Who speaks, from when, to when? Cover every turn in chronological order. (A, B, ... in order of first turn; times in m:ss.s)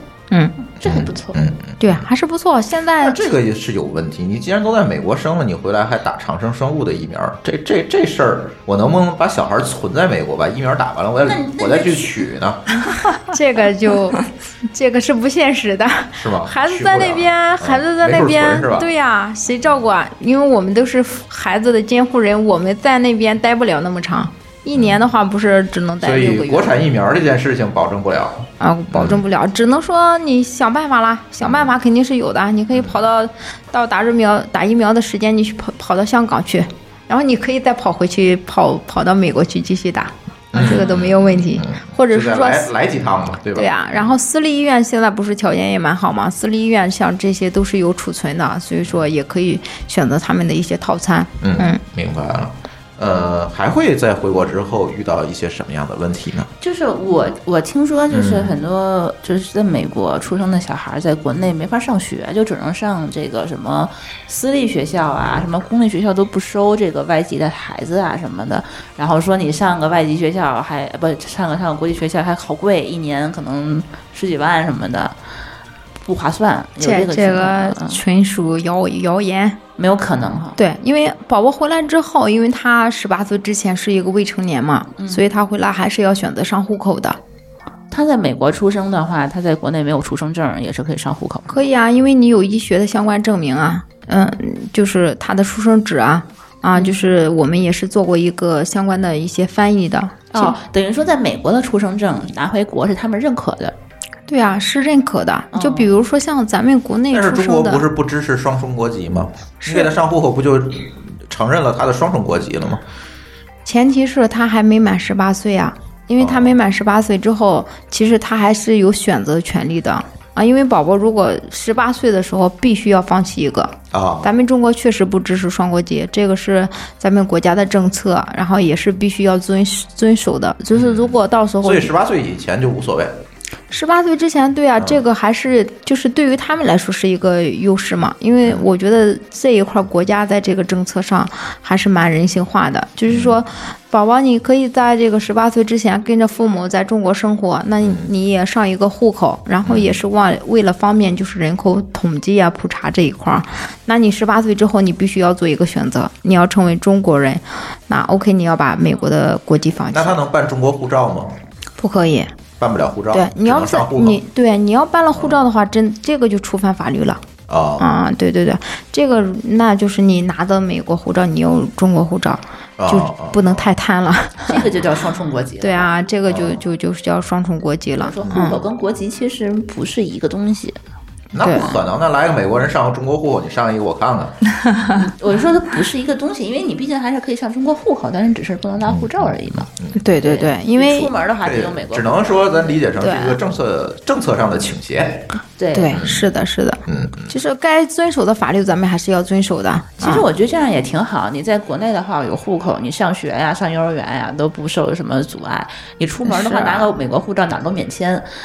0:00.8-0:02.0 A
0:00.8-0:01.4 B
0:01.8-0:03.2 C
0:03.0-0:12.8 A
0:11.2-0:12.2 B
0:13.3-0:26.8 C
0:16.1-0:18.9 A
0:24.7-0:25.0 A
0:26.0-0:29.2 A
0:28.6-0:42.7 C
0:31.4-0:31.7 A
0:32.7-0:33.0 A
0:40.5-0:44.0 A
0:40.6-0:41.0 B
0:43.5-0:51.8 C
0:51.4-0:56.5 A
0:56.6-1:15.1 B
0:58.1-0:58.5 A
1:16.0-1:18.0 B
1:16.8-1:19.6 C
1:19.8-1:20.6 B
1:20.6-1:27.2 C
1:27.9-1:31.6 B
1:31.5-1:40.5 C
1:40.3-1:43.8 B
1:44.3-1:47.8 C
1:45.5-1:45.9 B
1:47.1-1:52.8 A
1:49.6-1:49.9 C
1:53.6-2:11.9 C
1:56.2-1:56.6 A
2:03.9-2:04.3 A
2:10.7-2:13.2 A
2:13.7-2:40.2 C
2:23.1-2:23.4 A
2:27.8-2:28.1 A
2:29.6-2:30.0 A
2:39.9-2:41.4 A
2:41.8-2:42.3 C
2:42.6-2:44.2 A
2:43.1-2:47.2 C
2:45.1-2:45.4 A
2:47.5-2:47.9 A
2:47.8-2:54.7 C
2:52.8-2:53.7 A
2:54.4-2:55.9 B
2:55.6-2:58.6 C
2:56.3-2:56.6 A
2:58.0-3:00.8 B
3:01.3-3:04.4 A
3:01.4-3:01.8 C
3:05.0-3:09.7 B
3:08.8-3:10.0 A
3:10.0-3:11.1 C
3:10.2-3:12.8 B
3:11.4-3:15.3 A
3:13.0-3:13.4 C
3:15.6-3:16.0 B
3:15.7-3:20.2 C
3:15.9-3:16.2 A
3:16.9-3:17.3 A
3:20.0-3:28.3 B
3:26.3-3:26.8 C